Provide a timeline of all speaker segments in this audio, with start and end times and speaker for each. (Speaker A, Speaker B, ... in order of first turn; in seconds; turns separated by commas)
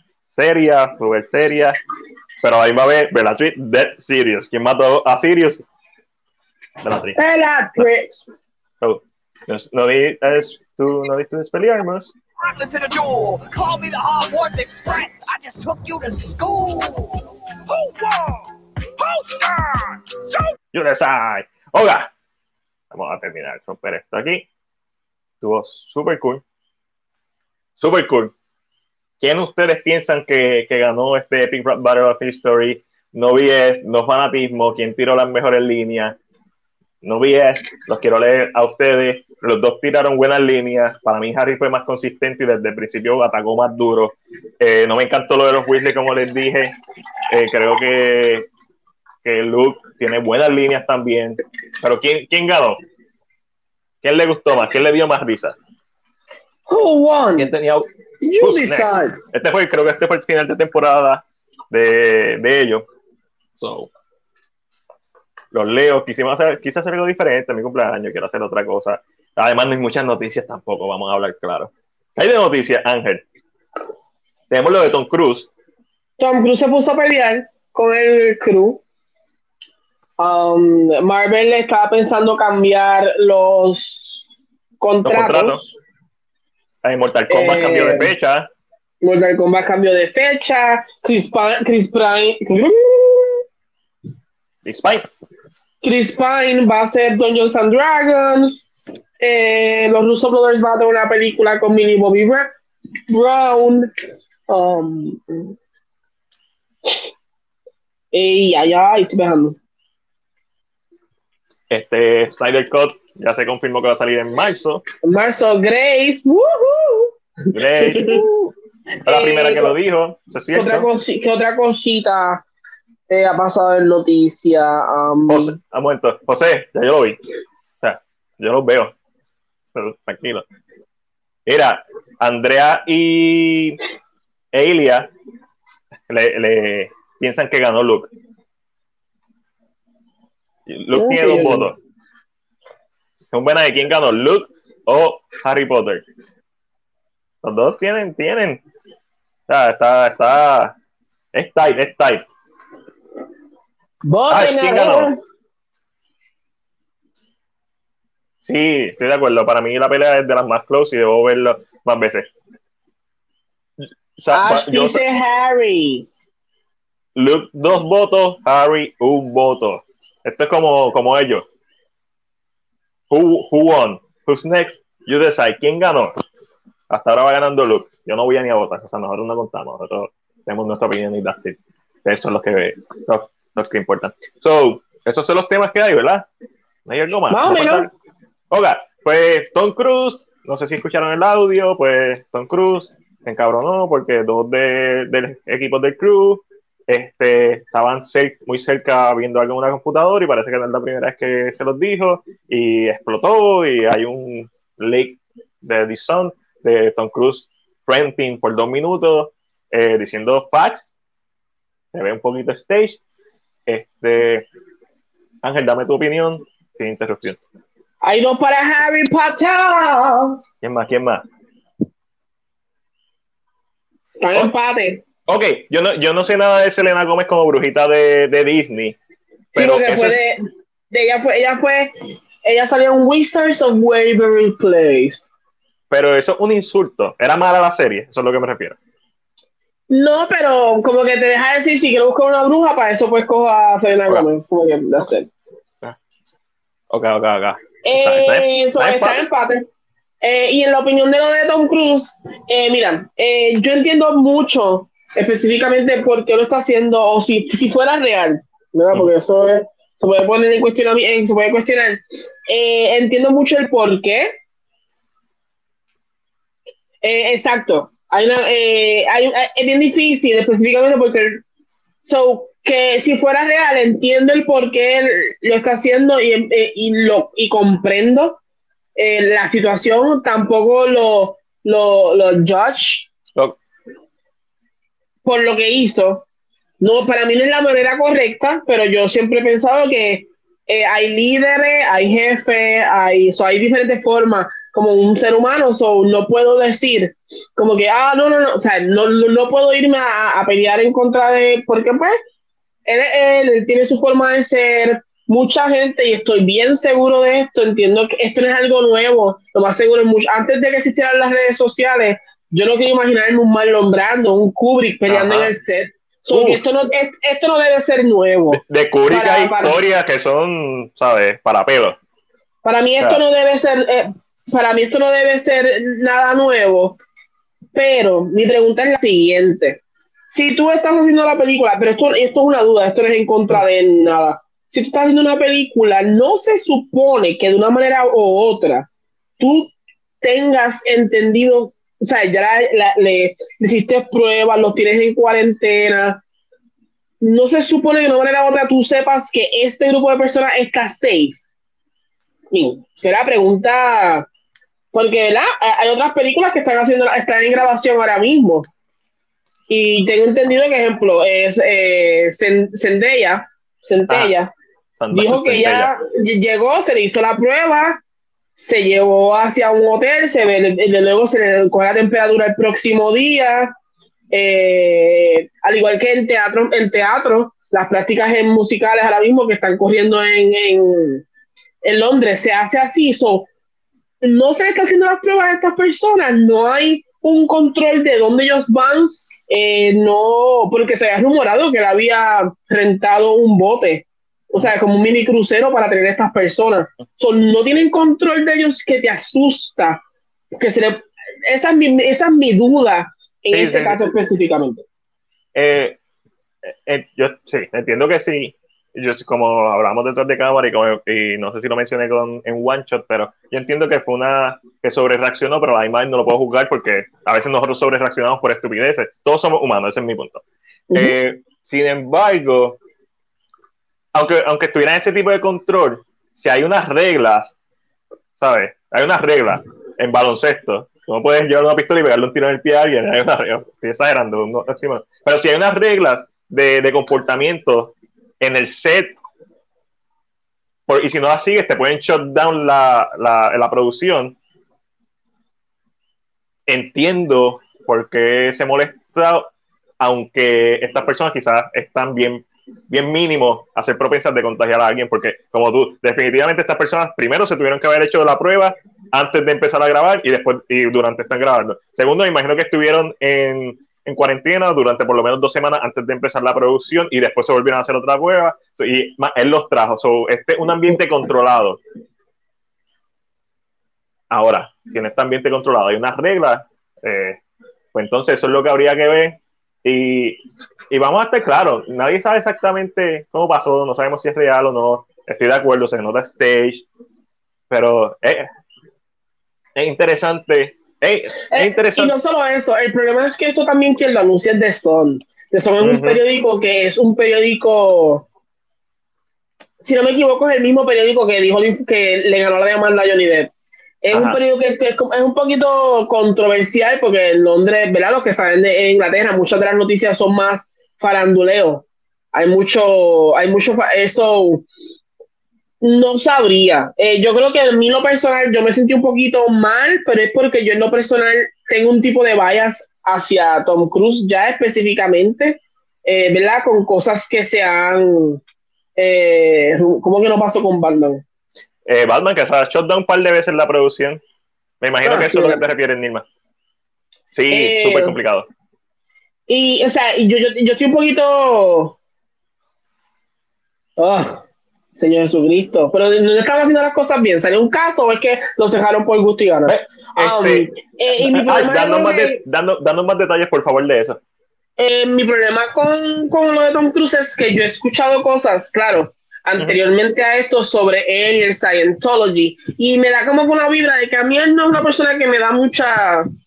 Speaker A: 0.3-1.8, Speaker A: 2.4-5.6, Speaker A: 6.8-7.2, Speaker B: 7.2-8.3, Speaker A: 8.8-12.1, Speaker C: 12.4-20.5, Speaker A: 20.7-22.1, Speaker A: 22.9-24.4, Speaker A: 25.4-26.4, Speaker A: 27.8-28.3, Speaker A: 29.2-36.1, Speaker A: 37.0-46.7, Speaker A: 47.3-48.5, Speaker A: 49.2-52.8, Speaker A: 54.0-55.5, Speaker B: 56.7-57.5, Speaker A: 57.4-57.9, Speaker B: 58.2-59.2, Speaker A: 58.4-62.9, Speaker A: 63.6-63.9, Speaker A: 65.5-73.2, Speaker A: 74.5-75.5, Speaker B: 76.2-78.8, Speaker B: 80.2-84.2, Speaker B: 84.8-85.7, Speaker A: 85.0-85.6, Speaker A: 86.8-88.5, Speaker B: 87.3-88.1, Speaker B: 89.0-93.4, Speaker A: 94.6-95.1, Speaker B: 95.8-98.7, Speaker B: 99.2-102.5, Speaker B: 103.1-103.9, Speaker B: 104.5-105.5, Speaker B: 108.1-109.6, Speaker A: 111.7-114.8, Speaker B: 115.0-117.1, Speaker A: 117.5-118.5, Speaker B: 117.7-118.2, Speaker A: 119.0-120.9, Speaker B: 119.0-119.8, Speaker B: 120.5-122.4, Speaker B: 123.1-125.6, Speaker A: 125.3-127.2, Speaker A: 127.8-128.9, Speaker A: 129.7-130.4, Speaker A: 131.5-133.8, Speaker A: 134.5-135.1, Speaker A: 136.1-138.1, Speaker A: 140.7-141.7, Speaker B: 140.9-141.7, Speaker A: 143.3-146.0, Speaker A: 147.4-148.6, Speaker A: 149.5-150.7, Speaker A: 151.3-152.2, Speaker B: 154.1-155.2, Speaker A: 154.3-155.1, Speaker A: 158.5-162.3, Speaker A: 164.2-165.0, Speaker B: 164.3-166.1, Speaker A: 167.2-171.4, Speaker A: 173.1-176.1, Speaker A: 176.9-186.2, Speaker A: 186.8-187.9, Speaker B: 187.3-187.9, Speaker A: 188.5-210.9, Speaker A: 211.9-213.0, Speaker A: 213.7-214.4, Speaker A: 215.4-217.4, Speaker B: 218.0-220.4, Speaker A: 220.6-221.2, Speaker B: 224.2-225.0, Speaker A: 225.3-229.0, Speaker B: 229.5-235.2, Speaker A: 229.5-230.2, Speaker A: 235.9-238.8, Speaker B: 239.9-245.3, Speaker A: 246.9-249.2, Speaker B: 247.8-249.7, Speaker B: 250.2-264.4, Speaker B: 267.0-271.4, Speaker B: 272.0-278.4, Speaker B: 278.9-283.1, Speaker B: 285.2-286.2, Speaker B: 286.8-302.2, Speaker B: 302.9-319.8, Speaker A: 315.1-315.5, Speaker A: 316.3-316.6, Speaker A: 318.5-322.0, Speaker B: 322.6-327.0, Speaker B: 327.7-338.9, Speaker B: 339.4-346.2, Speaker B: 347.2-351.4, Speaker B: 352.5-354.3, Speaker B: 354.9-358.7, Speaker B: 359.7-364.5, Speaker A: 364.1-364.3, Speaker A: 365.0-365.9, Speaker B: 365.1-368.0, Speaker B: 368.6-373.7, Speaker B: 374.3-381.2, Speaker B: 381.8-383.5, Speaker B: 384.2-400.0, Speaker B: 400.5-404.8, Speaker A: 403.5-404.0, Speaker A: 405.5-406.0, Speaker A: 406.6-420.4, Speaker A: 420.9-422.8, Speaker A: 424.1-427.5, Speaker A: 428.4-439.1, Speaker A: 440.9-444.4, Speaker A: 446.7-449.5, Speaker A: 450.0-471.8, Speaker A: 474.3-477.4, Speaker A: 477.9-486.8, Speaker A: 487.7-488.4, Speaker A: 489.7-492.1, Speaker B: 491.5-498.2, Speaker A: 495.8-496.2, Speaker B: 499.8-503.5, Speaker B: 504.0-514.6, Speaker A: 504.1-504.4, Speaker B: 515.8-528.4, Speaker B: 529.0-531.2, Speaker A: 531.9-534.2, Speaker A: 534.8-536.2, Speaker B: 535.0-535.6, Speaker A: 537.3-538.5, Speaker B: 537.5-538.1, Speaker B: 539.5-541.9, Speaker B: 544.0-544.4, Speaker B: 544.9-552.4, Speaker A: 549.7-554.2, Speaker B: 554.8-566.3